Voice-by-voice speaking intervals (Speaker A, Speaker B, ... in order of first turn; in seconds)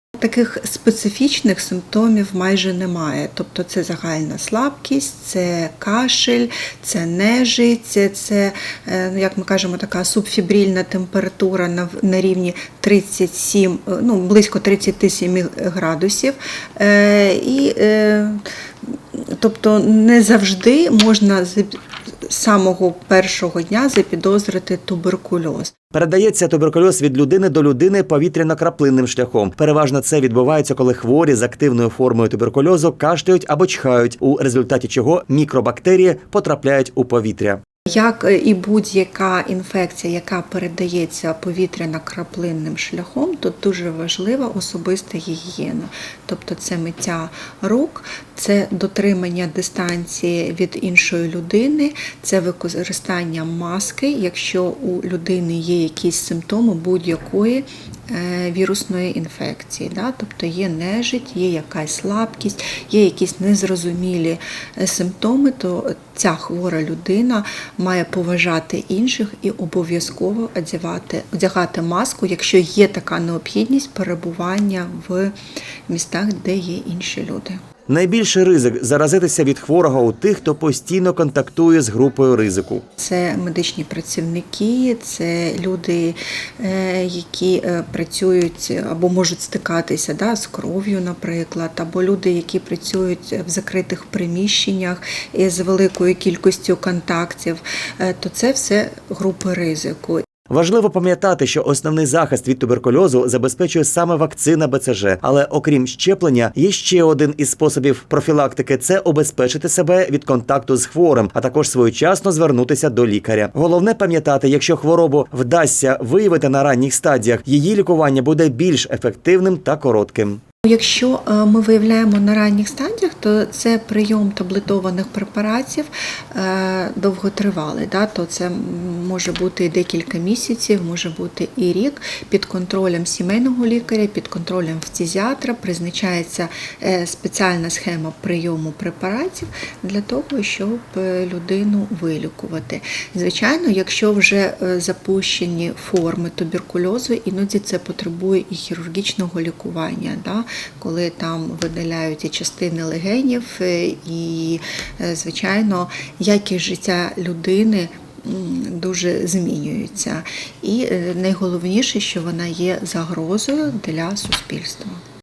Speaker A: 0.2-25.7, 37.9-75.3, 75.9-77.6, 83.0-100.3, 120.7-165.0
Speaker B: 25.9-37.6, 77.9-82.8, 100.5-120.4